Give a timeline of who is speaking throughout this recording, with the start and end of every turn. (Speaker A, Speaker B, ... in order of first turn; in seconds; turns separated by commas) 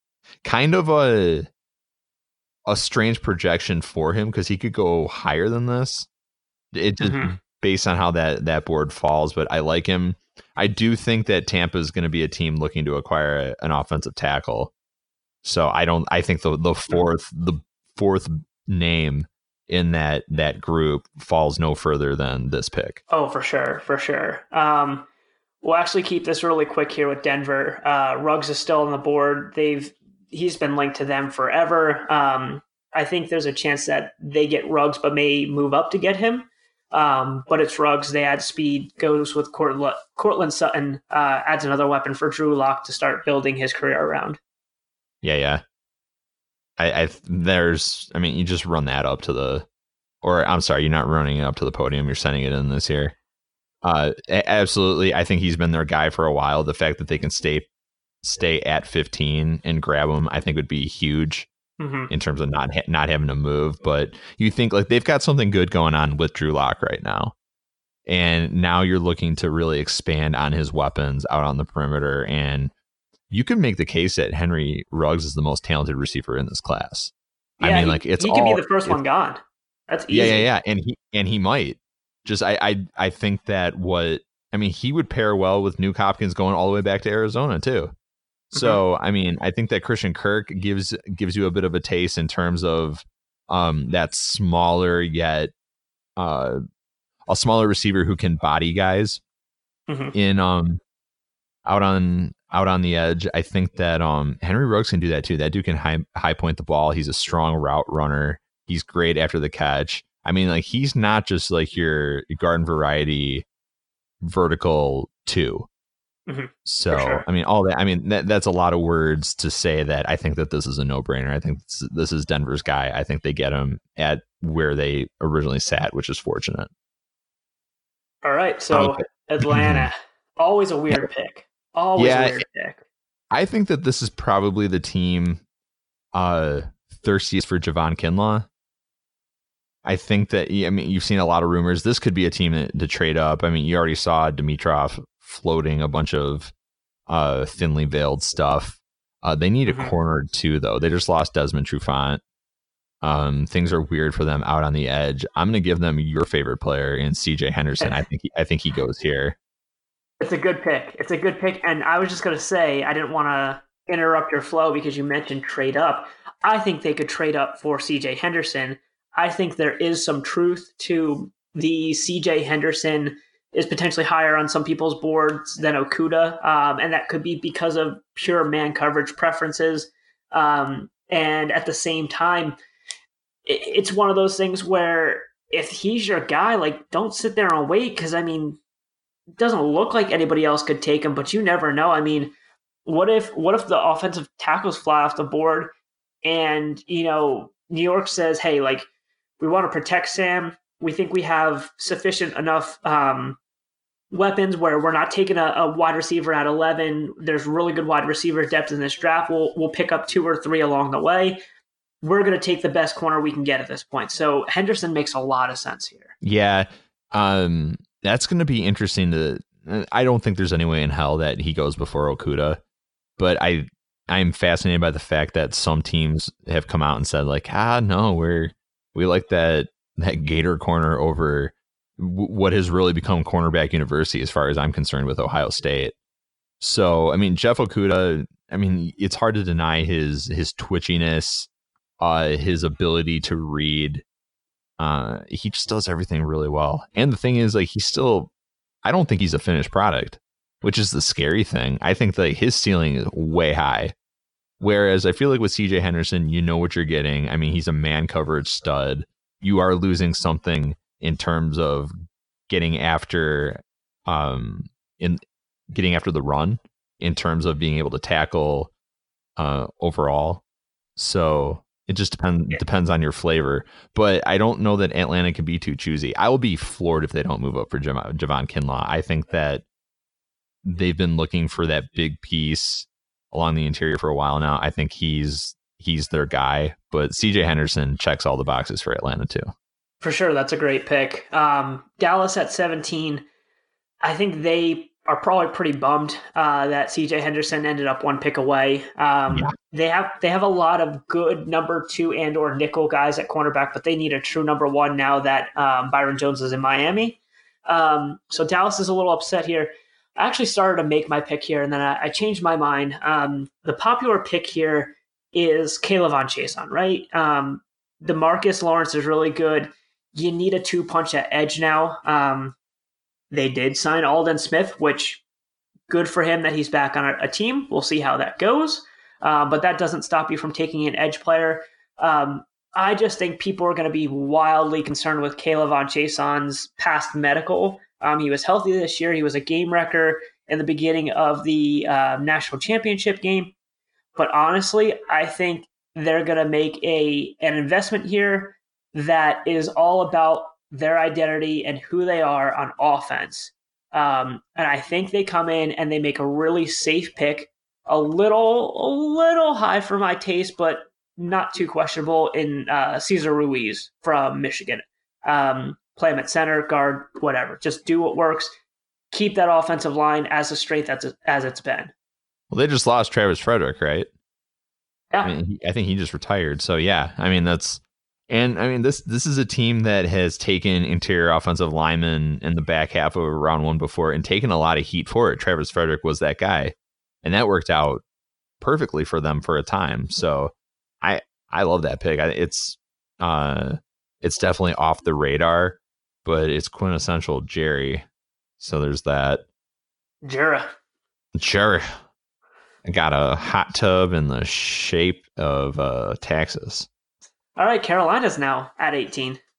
Speaker A: 0.4-1.5, Speaker A: 2.7-6.1, Speaker A: 6.7-14.7, Speaker B: 7.0-7.3, Speaker A: 15.4-23.0, Speaker B: 23.1-25.1, Speaker B: 25.6-44.4, Speaker A: 45.2-45.6, Speaker A: 46.8-49.6, Speaker A: 50.2-53.1, Speaker A: 53.8-57.7, Speaker A: 58.2-61.5, Speaker B: 61.8-62.1, Speaker A: 62.1-67.3, Speaker A: 68.0-72.7, Speaker A: 73.3-79.0, Speaker B: 77.6-80.5, Speaker A: 80.1-87.9, Speaker B: 88.5-88.8, Speaker A: 88.5-95.5, Speaker A: 96.2-96.6, Speaker A: 97.3-99.2, Speaker B: 99.9-100.1, Speaker A: 100.1-100.8, Speaker A: 101.6-113.4, Speaker A: 114.2-115.7, Speaker B: 116.3-117.2, Speaker A: 116.6-126.7, Speaker B: 128.2-132.8, Speaker A: 128.7-129.9, Speaker A: 131.9-132.4, Speaker A: 133.3-135.4, Speaker A: 136.1-138.5, Speaker A: 139.8-146.5, Speaker A: 147.1-152.2, Speaker B: 149.7-149.9, Speaker A: 153.0-159.3, Speaker B: 160.2-182.6, Speaker B: 183.4-188.6, Speaker B: 189.4-192.3, Speaker B: 192.8-195.7, Speaker B: 196.2-198.8, Speaker B: 199.4-203.4, Speaker B: 204.1-211.4, Speaker B: 212.0-216.1, Speaker A: 216.2-222.6, Speaker A: 223.2-235.9, Speaker A: 236.6-241.5, Speaker A: 242.0-244.0, Speaker A: 244.8-248.3, Speaker A: 248.8-253.9, Speaker A: 254.6-261.9, Speaker A: 262.5-268.7, Speaker A: 269.4-270.4, Speaker A: 270.9-279.6, Speaker A: 280.6-289.5, Speaker B: 290.0-293.2, Speaker B: 294.0-322.6, Speaker A: 299.3-299.5, Speaker B: 323.3-325.2, Speaker B: 325.9-343.5, Speaker B: 344.1-368.5, Speaker B: 369.1-371.9, Speaker A: 372.5-374.1, Speaker A: 375.2-388.0, Speaker A: 388.6-398.0, Speaker A: 398.6-399.4, Speaker B: 400.2-400.7, Speaker A: 401.3-401.9, Speaker A: 402.8-406.9, Speaker B: 407.6-409.4